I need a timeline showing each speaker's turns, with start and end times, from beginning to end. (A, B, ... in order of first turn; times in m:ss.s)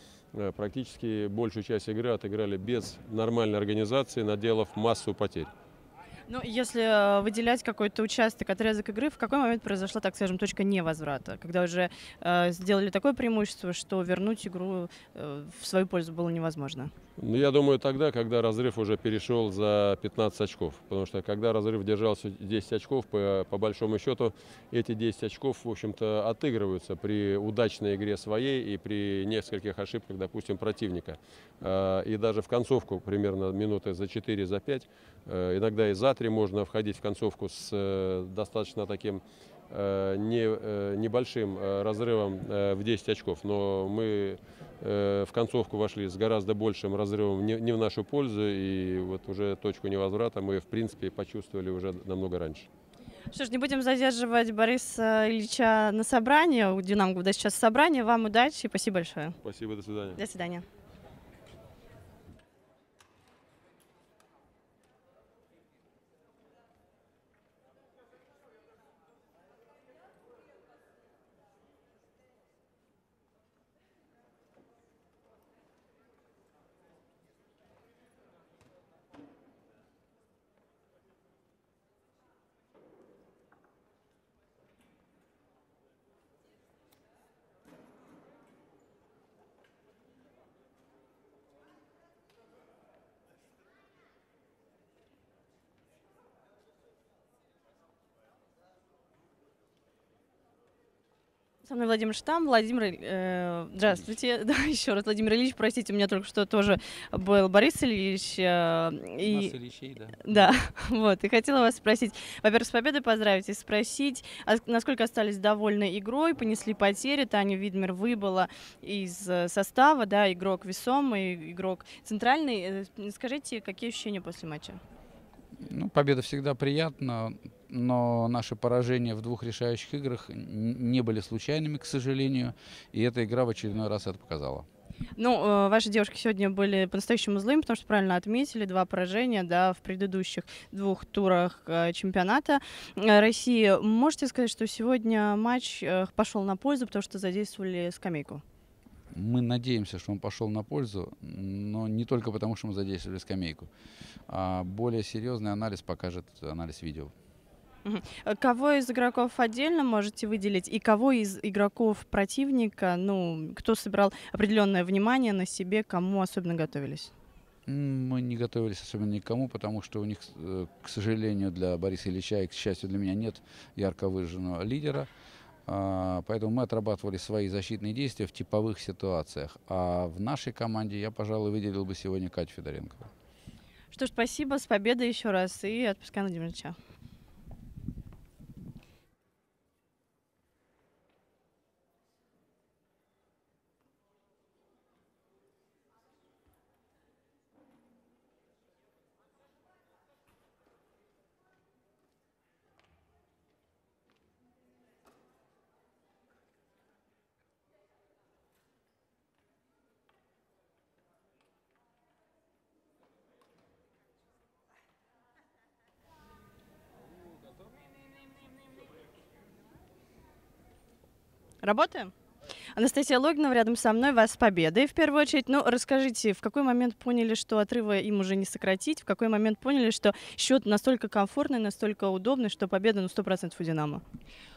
0:00.3-0:05.5 A
0:06.3-0:16.9 B
0:17.2-0:52.7 A
0:53.3-0:59.4 B
0:59.4-1:00.2 A
1:00.2-1:00.6 B
1:41.6-1:49.6 B
1:49.3-1:50.4 C
1:50.2-2:04.8 B
2:05.6-2:14.7 C
2:15.2-2:28.4 B
2:29.1-2:33.7 C
2:34.3-2:37.1 C
2:37.8-2:47.1 B
2:47.7-2:55.1 C
2:55.7-3:03.1 C
3:03.9-3:06.8 B
3:41.6-3:42.1 B
3:42.8-3:54.0 B